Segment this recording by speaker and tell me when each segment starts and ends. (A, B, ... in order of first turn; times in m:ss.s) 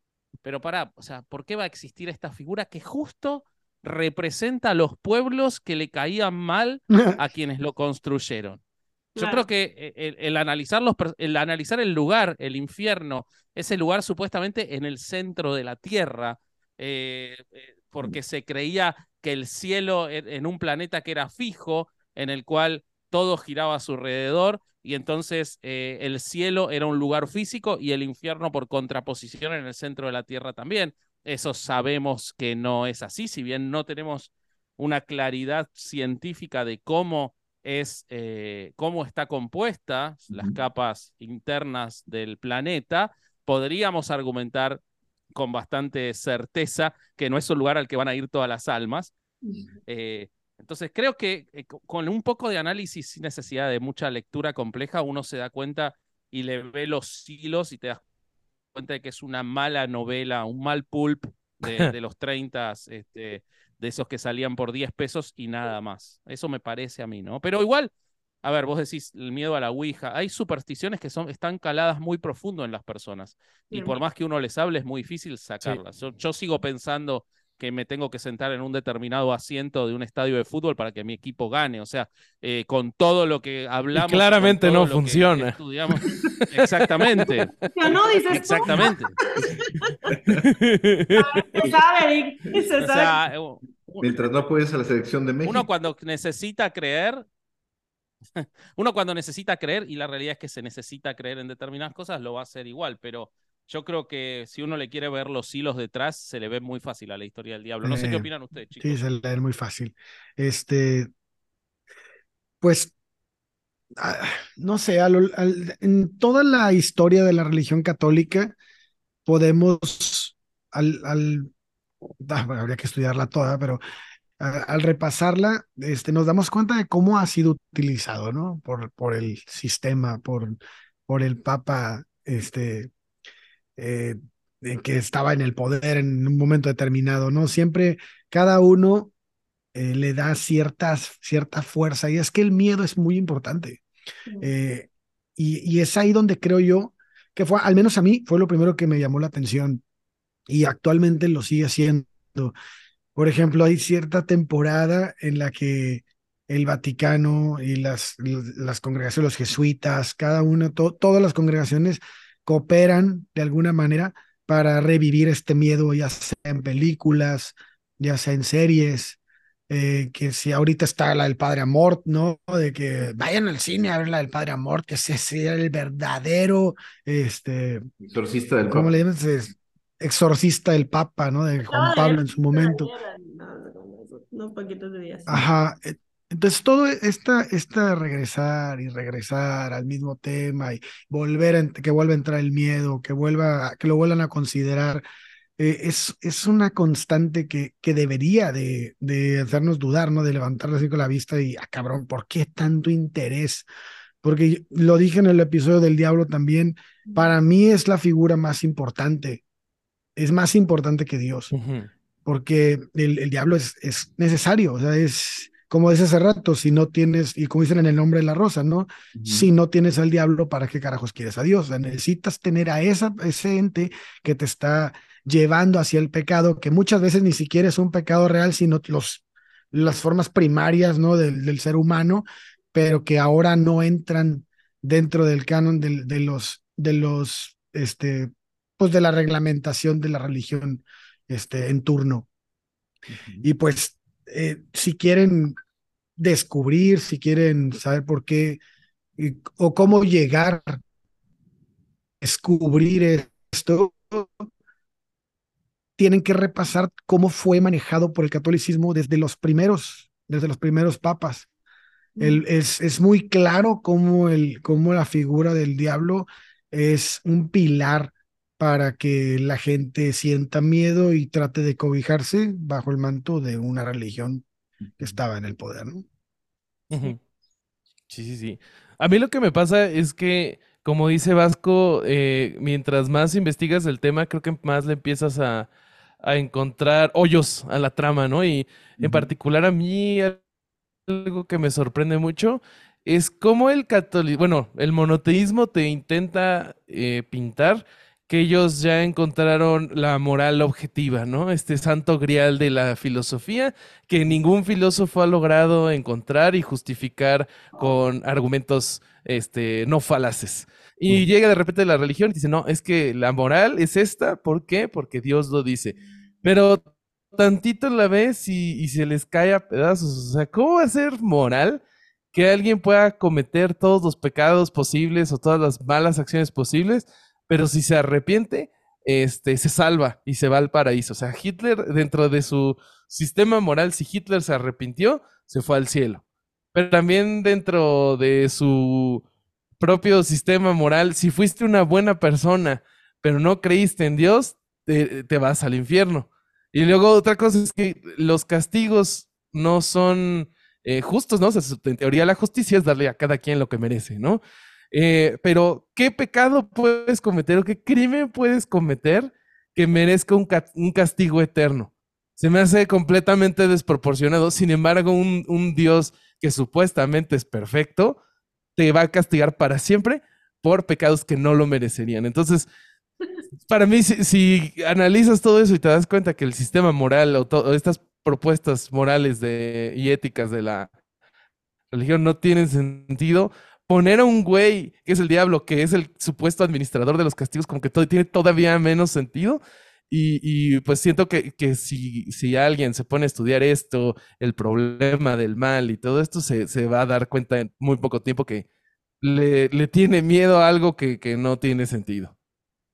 0:00.4-0:08.6 A
0:09.2-0:09.5 B
0:09.2-0:44.8 A
0:40.3-0:40.6 C
0:45.3-0:49.1 A
0:49.9-0:58.0 A
0:58.7-1:07.9 A
1:08.4-1:29.2 A
1:13.7-1:14.0 B
1:23.9-1:25.6 D
1:26.1-1:27.7 D
1:27.7-1:30.1 B
1:30.4-1:31.3 D
1:31.1-1:33.2 B
1:32.8-1:34.2 A
1:34.0-1:35.7 C
1:35.4-1:37.3 A
1:38.4-1:49.0 A
1:47.8-1:48.3 E
1:48.8-1:51.1 E
1:52.6-1:52.9 E
1:54.0-1:58.6 E
1:59.3-2:01.5 E
2:02.2-2:03.8 E
2:04.4-2:12.9 E
2:13.8-2:19.1 E
2:19.7-2:23.8 E
2:24.4-2:29.8 E
2:30.5-2:32.5 E
2:33.2-2:49.2 E
2:49.7-2:57.8 E
2:58.0-2:59.0 C
2:58.7-3:02.9 E
3:01.7-3:05.4 B
3:05.3-3:15.0 E
3:15.6-3:23.7 E
3:24.2-3:29.4 E
3:27.1-3:27.3 B
3:30.2-3:31.5 E
3:31.5-3:31.9 D
3:32.3-4:02.3 E
3:39.2-3:39.5 C
4:03.1-4:03.5 C
4:03.4-4:05.6 E
4:06.2-4:08.6 E
4:09.2-4:10.8 E
4:12.2-4:14.5 E
4:16.0-4:21.5 E
4:22.2-4:22.4 B
4:22.2-4:34.5 E
4:35.0-4:36.0 E
4:36.9-4:37.2 D
4:38.1-4:45.7 D
4:46.2-4:50.4 D
4:49.0-4:49.3 C
4:51.1-5:16.8 D
5:17.3-5:21.8 D
5:22.3-5:36.2 D
5:36.7-5:39.2 D
5:39.8-5:54.4 D
5:54.9-6:08.2 D
6:08.8-6:12.7 D
6:13.7-6:20.9 D
6:21.9-6:38.6 D
6:39.2-6:42.3 D